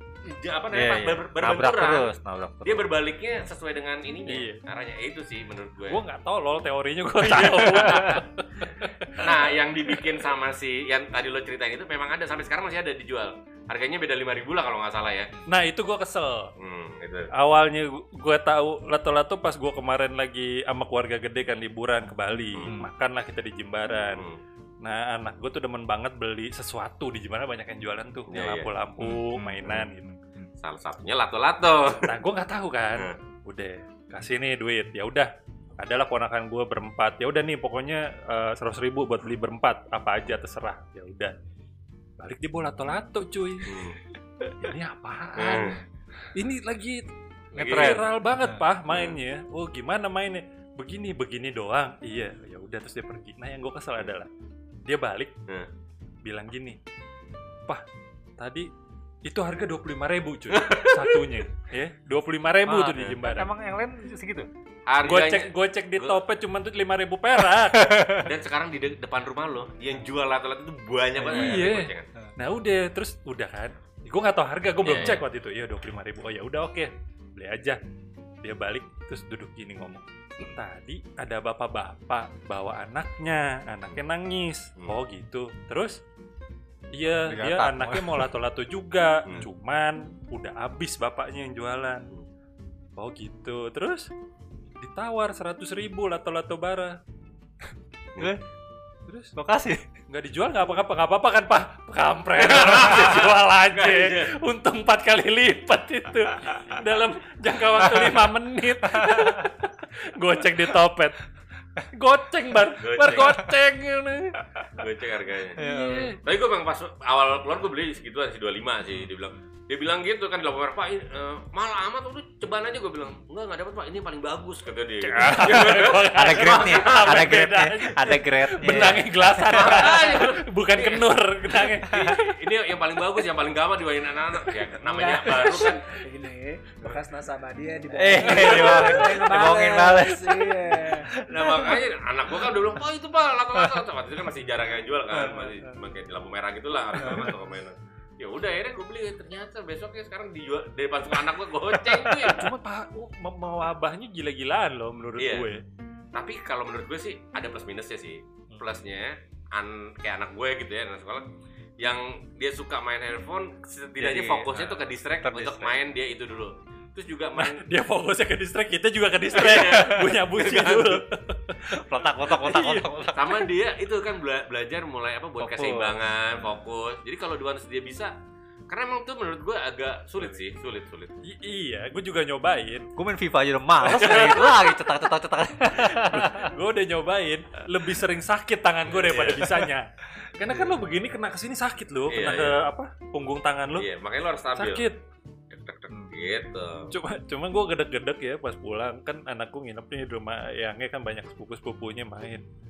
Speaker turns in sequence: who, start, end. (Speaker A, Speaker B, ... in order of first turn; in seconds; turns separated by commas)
Speaker A: 0.2-2.1, Speaker B: 0.7-2.9, Speaker A: 2.6-6.0, Speaker C: 4.3-4.6, Speaker C: 5.9-9.5, Speaker A: 7.2-15.3, Speaker B: 7.9-8.2, Speaker C: 15.5-16.5, Speaker A: 16.6-17.3, Speaker C: 17.3-24.2, Speaker A: 24.1-24.4, Speaker C: 24.8-30.0, Speaker A: 28.3-28.7, Speaker B: 29.0-30.5, Speaker A: 30.6-32.1, Speaker C: 32.0-41.3, Speaker C: 42.2-43.8, Speaker A: 43.6-44.0, Speaker C: 44.6-45.8, Speaker A: 45.4-45.8, Speaker C: 46.3-47.1, Speaker A: 47.5-48.0, Speaker B: 47.5-48.6, Speaker C: 47.6-54.3, Speaker A: 48.9-49.2, Speaker C: 54.8-55.3, Speaker C: 56.2-56.8, Speaker C: 58.4-58.7, Speaker C: 59.2-63.5, Speaker A: 60.5-61.2, Speaker B: 62.6-64.5, Speaker A: 64.9-66.2, Speaker C: 65.0-68.0, Speaker B: 67.7-68.3, Speaker A: 68.2-72.1, Speaker B: 71.2-72.3, Speaker C: 71.2-77.8, Speaker A: 74.8-75.2, Speaker C: 78.4-86.0, Speaker C: 86.9-92.1, Speaker B: 87.2-88.3, Speaker C: 93.0-94.1, Speaker C: 94.8-97.0, Speaker C: 99.1-99.3, Speaker B: 99.3-99.8, Speaker C: 100.1-111.2, Speaker A: 102.4-104.3, Speaker B: 107.8-108.2, Speaker B: 108.9-109.5, Speaker C: 111.8-114.4, Speaker A: 112.8-113.4, Speaker A: 114.8-115.6, Speaker B: 115.5-116.2, Speaker C: 115.6-116.2, Speaker A: 116.2-127.3, Speaker C: 125.0-132.3, Speaker B: 125.4-129.9, Speaker A: 129.5-135.8, Speaker D: 134.8-141.1, Speaker B: 137.9-141.8, Speaker A: 141.3-152.5, Speaker B: 143.6-143.8, Speaker B: 145.1-145.6, Speaker B: 147.0-147.3, Speaker B: 152.0-152.3, Speaker C: 152.2-155.6, Speaker A: 155.2-155.5, Speaker A: 156.1-161.2, Speaker A: 161.8-167.6, Speaker B: 164.0-165.8, Speaker C: 167.4-172.9, Speaker A: 169.3-171.0, Speaker B: 171.7-173.4, Speaker A: 173.1-178.1, Speaker B: 175.4-175.9, Speaker A: 178.7-181.1, Speaker C: 181.2-182.9, Speaker B: 183.0-186.5, Speaker A: 183.8-184.6, Speaker C: 185.8-193.8, Speaker A: 188.9-189.7, Speaker A: 192.1-192.6, Speaker A: 193.8-194.9, Speaker C: 194.6-195.0, Speaker A: 195.5-196.9, Speaker C: 196.9-202.4